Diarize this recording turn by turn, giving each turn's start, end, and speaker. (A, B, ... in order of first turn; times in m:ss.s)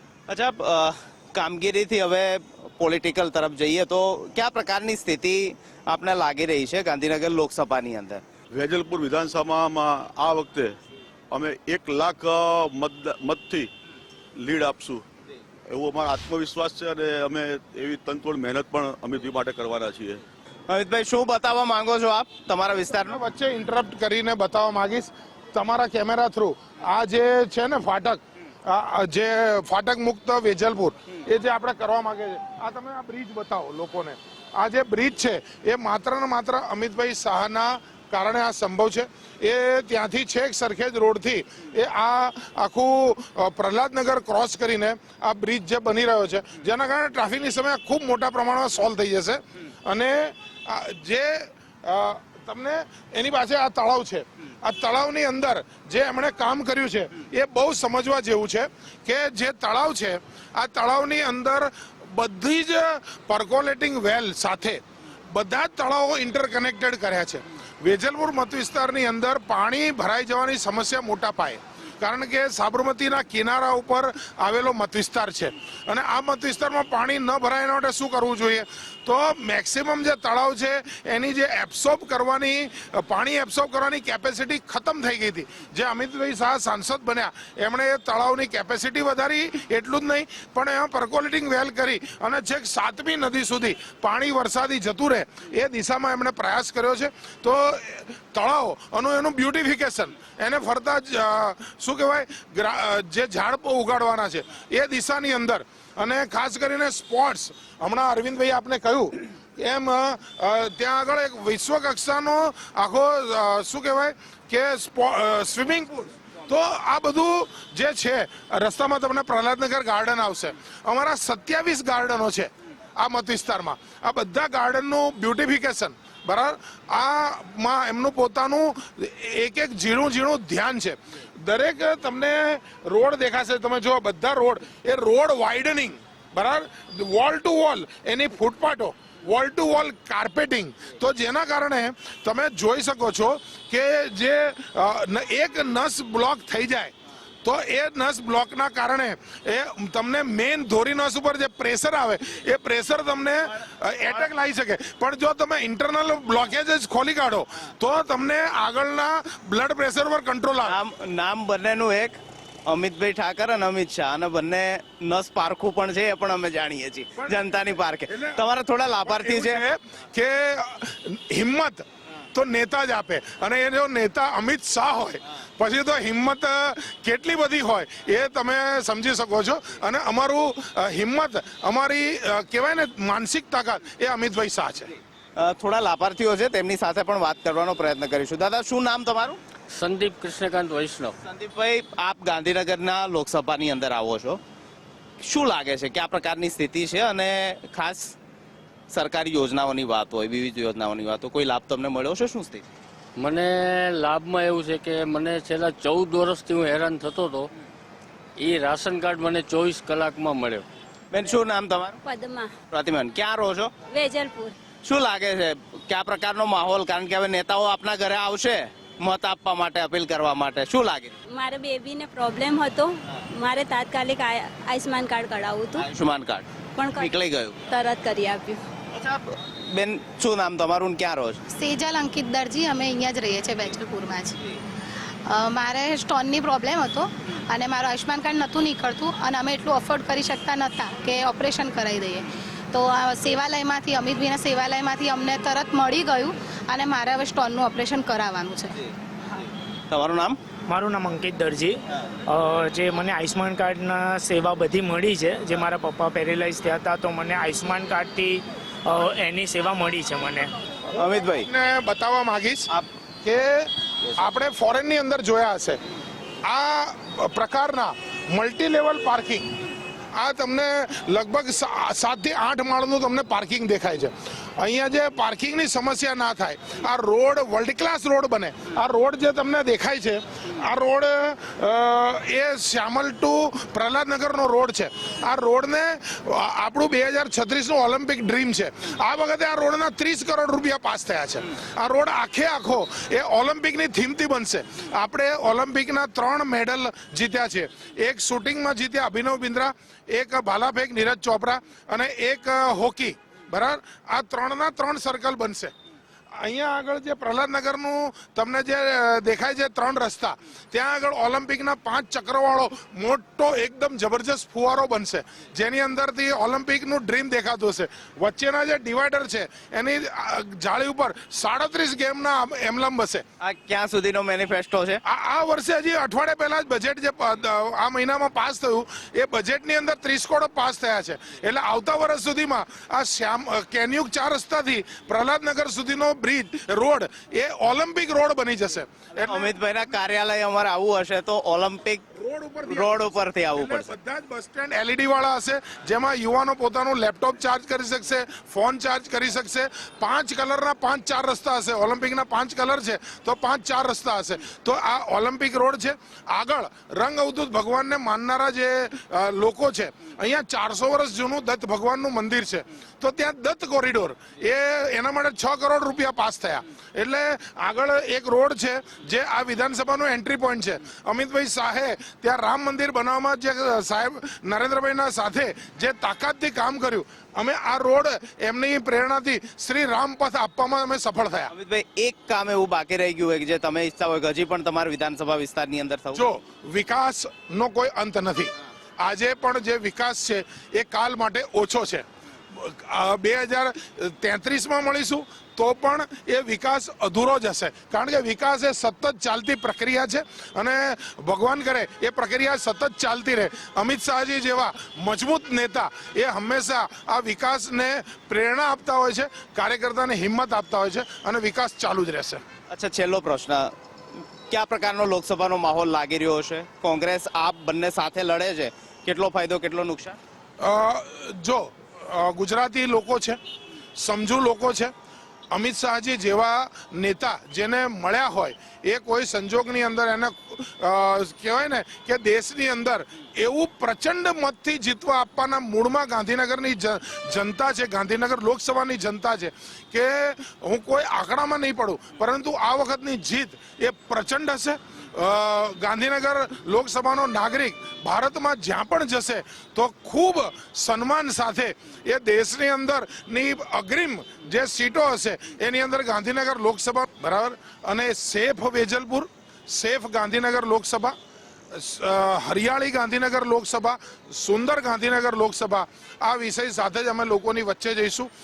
0:00.3-0:08.2 A
0:08.5-0:10.8 B
0:11.3-0:13.7 B
0:14.4-0:15.0 B
0:15.7-0:20.2 B
0:20.7-0:23.2 A
0:23.0-1:04.8 C
1:05.3-2:26.9 C
2:27.4-2:40.8 C
2:40.7-2:49.6 A
2:47.2-2:47.6 C
2:48.1-2:48.4 C
2:49.0-3:04.9 C
3:05.4-3:09.4 A
3:09.7-3:11.2 D
3:11.2-3:14.4 A
3:15.2-3:18.2 A
3:18.9-3:22.7 A
3:23.2-3:27.5 D
3:28.4-3:30.7 D
3:31.1-3:32.0 A
3:32.0-3:32.5 E
3:32.7-3:33.7 A
3:33.9-3:34.5 E
3:34.8-3:41.2 A
3:41.3-3:45.8 E
3:45.8-3:47.6 A
3:46.8-3:47.1 E
3:47.7-3:48.6 E
3:48.9-3:51.4 A
3:51.5-3:54.4 F
3:55.3-4:08.8 F
4:09.9-4:10.4 A
4:10.7-4:11.8 G
4:12.3-4:20.5 G
4:21.0-4:21.5 A
4:21.4-4:22.7 C
4:23.2-4:25.8 C
4:26.4-4:29.5 C
4:30.2-5:05.7 C
5:06.4-5:23.2 C
5:23.4-5:25.0 A
5:25.0-5:39.6 C
5:39.3-5:42.0 A
5:42.1-6:21.5 C
5:42.7-5:44.0 A
6:21.5-6:26.2 A
6:26.1-6:28.5 C
6:29.0-6:52.4 C
6:52.7-6:53.7 A
6:54.5-7:00.2 A
7:00.6-7:03.4 C
7:04.0-7:04.9 C
7:05.5-7:41.2 C
7:41.7-7:48.3 C